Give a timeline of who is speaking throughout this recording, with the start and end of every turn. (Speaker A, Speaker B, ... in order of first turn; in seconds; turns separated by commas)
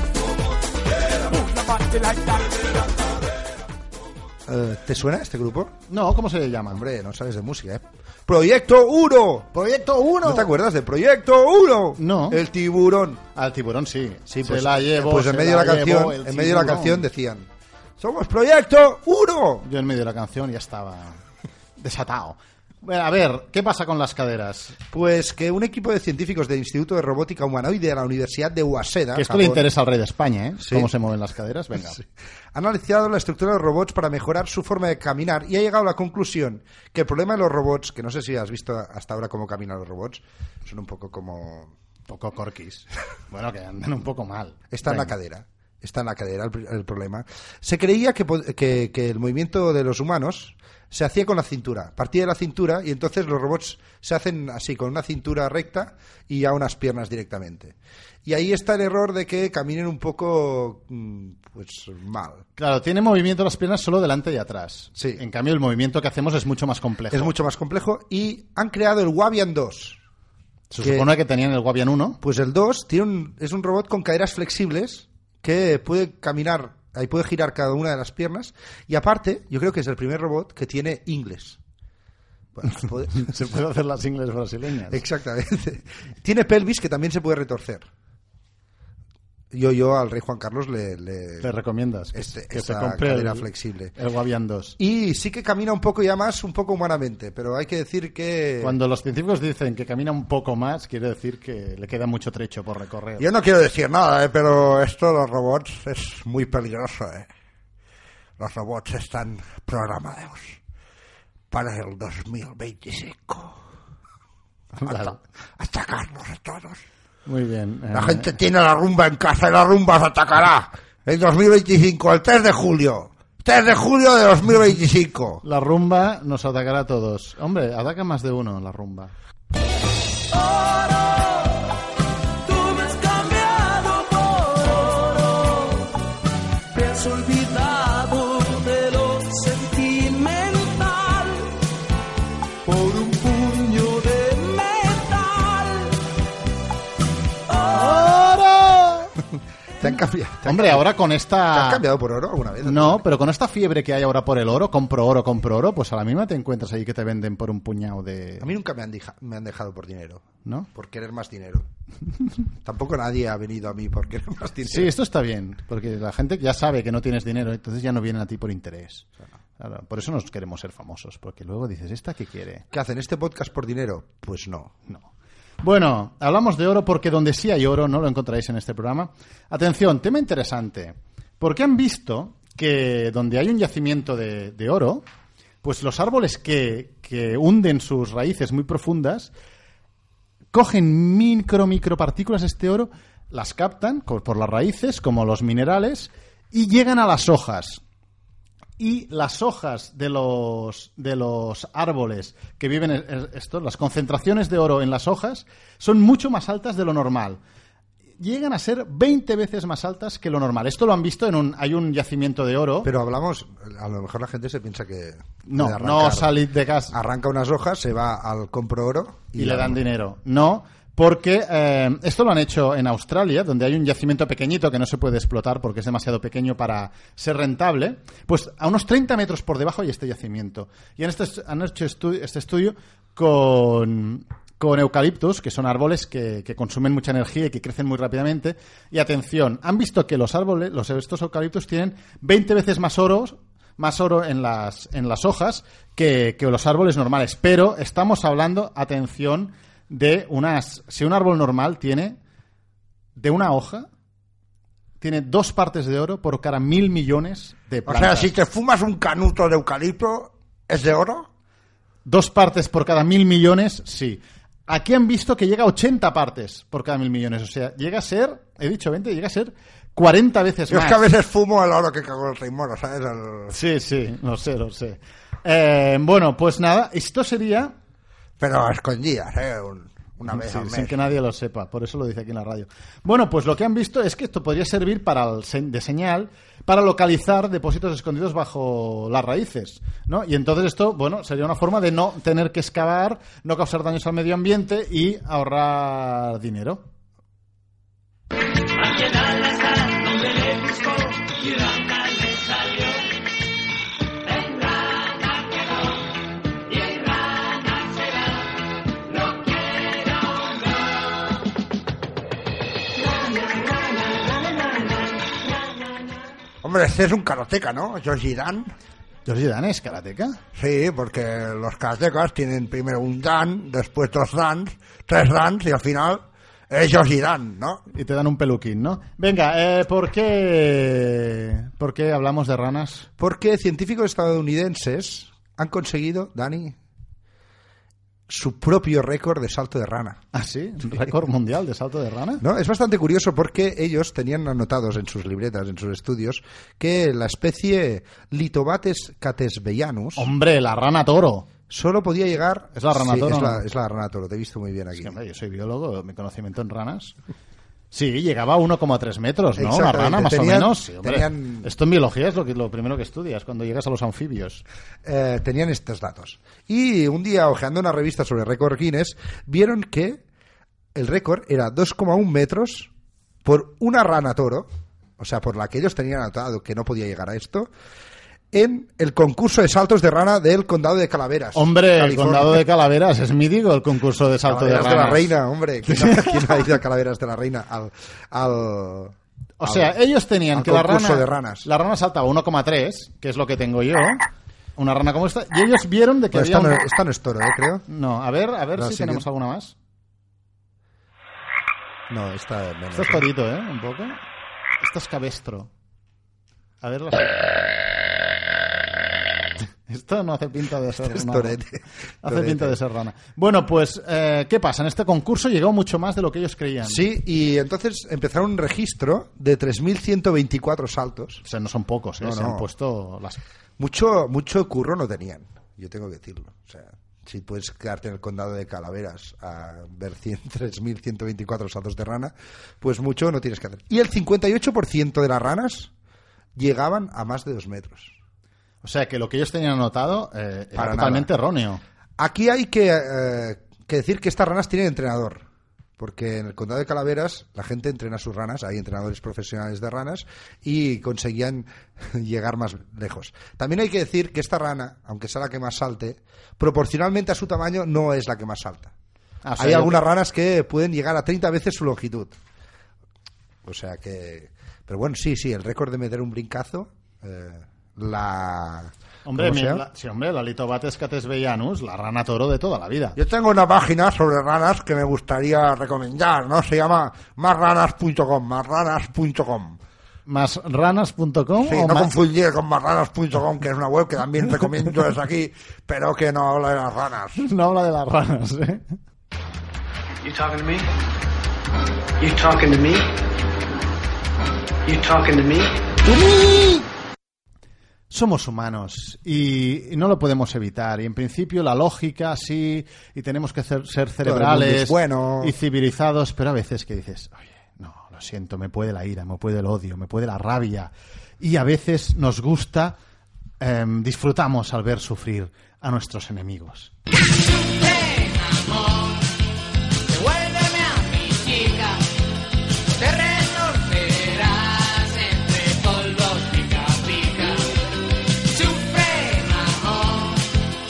Speaker A: 4.5-5.8, Speaker B: 5.9-6.8, Speaker A: 6.7-9.5, Speaker B: 9.5-10.5, Speaker A: 10.2-13.2, Speaker B: 12.0-12.4, Speaker B: 13.3-17.1, Speaker A: 14.3-17.5, Speaker A: 18.0-19.6, Speaker B: 19.6-21.2, Speaker B: 21.8-24.8, Speaker A: 24.9-29.6, Speaker B: 29.1-32.0, Speaker A: 30.6-30.9, Speaker A: 31.8-41.7, Speaker B: 42.1-45.1, Speaker A: 44.7-62.4, Speaker B: 62.6-67.3, Speaker A: 65.0-65.2, Speaker A: 67.1-70.0, Speaker B: 70.7-72.2, Speaker A: 70.8-71.1, Speaker A: 72.2-81.6, Speaker A: 82.5-83.4, Speaker B: 82.8-85.0, Speaker A: 84.9-87.9, Speaker A: 89.5-91.5, Speaker B: 91.4-94.8, Speaker A: 92.1-93.9, Speaker A: 94.8-98.8, Speaker B: 98.6-103.3, Speaker A: 103.2-107.3, Speaker A: 108.4-110.6, Speaker A: 111.5-113.7, Speaker B: 114.8-115.2, Speaker A: 114.8-116.8, Speaker B: 117.3-118.3, Speaker A: 117.9-125.4, Speaker B: 125.4-129.1, Speaker C: 130.3-131.8, Speaker C: 132.4-136.0, Speaker C: 136.7-141.6, Speaker C: 142.6-146.0, Speaker C: 147.5-148.2, Speaker B: 147.7-149.1, Speaker A: 149.8-150.8, Speaker B: 149.8-151.8, Speaker A: 151.5-153.1, Speaker B: 152.6-158.5, Speaker A: 158.4-161.7, Speaker A: 162.6-164.9, Speaker B: 164.7-172.7, Speaker A: 172.7-174.8, Speaker B: 175.6-185.0, Speaker B: 185.6-189.3, Speaker B: 190.5-197.8, Speaker B: 198.8-207.4, Speaker B: 208.2-212.9, Speaker A: 212.8-216.4, Speaker B: 215.5-217.0, Speaker A: 216.9-219.8, Speaker B: 219.4-252.2, Speaker B: 253.2-253.9, Speaker B: 255.0-258.3, Speaker A: 257.9-261.3, Speaker B: 262.1-271.0, Speaker A: 270.7-273.6, Speaker B: 273.5-277.7, Speaker A: 278.4-281.1, Speaker B: 280.3-296.9, Speaker C: 298.8-303.0, Speaker C: 304.3-305.6, Speaker C: 306.7-308.0, Speaker C: 309.2-310.4, Speaker C: 313.0-315.4, Speaker A: 316.6-318.7, Speaker B: 319.2-320.4, Speaker A: 320.6-327.9, Speaker B: 327.9-333.1, Speaker A: 333.2-336.8, Speaker A: 338.3-340.2, Speaker B: 340.3-342.4, Speaker A: 342.4-350.3, Speaker B: 350.2-351.5, Speaker A: 351.7-355.2, Speaker B: 352.8-353.6, Speaker B: 355.0-357.1, Speaker B: 357.9-364.6, Speaker A: 359.6-361.7, Speaker A: 365.0-370.2, Speaker A: 370.9-372.9, Speaker A: 373.4-377.7, Speaker A: 378.5-382.6, Speaker B: 381.5-385.3, Speaker A: 384.5-389.9, Speaker B: 385.9-386.6, Speaker B: 389.6-394.2, Speaker A: 390.5-391.7, Speaker B: 394.8-396.8, Speaker A: 396.3-397.9, Speaker B: 397.9-399.8, Speaker A: 398.8-399.2, Speaker A: 402.1-403.3, Speaker B: 402.9-404.2, Speaker B: 404.8-405.7, Speaker B: 406.8-407.5, Speaker B: 409.9-411.6, Speaker A: 411.1-412.8, Speaker B: 412.2-417.0, Speaker A: 416.8-421.4, Speaker B: 421.4-423.4, Speaker A: 422.2-422.7, Speaker A: 423.8-435.9, Speaker A: 436.6-438.2, Speaker B: 438.8-441.8, Speaker A: 440.8-441.3, Speaker A: 442.2-445.4, Speaker A: 446.0-458.9, Speaker B: 459.4-460.0, Speaker A: 459.6-462.4, Speaker A: 463.6-469.9, Speaker B: 469.3-473.2, Speaker A: 473.2-479.8, Speaker B: 480.3-482.1, Speaker A: 481.6-487.4, Speaker B: 487.4-488.9, Speaker D: 490.2-490.9, Speaker D: 492.2-493.1, Speaker D: 494.9-495.8, Speaker B: 496.1-496.8, Speaker B: 498.1-513.0, Speaker A: 504.2-505.5, Speaker B: 513.6-516.9, Speaker E: 517.2-519.3, Speaker E: 520.0-522.2, Speaker E: 522.9-527.8, Speaker E: 528.4-530.6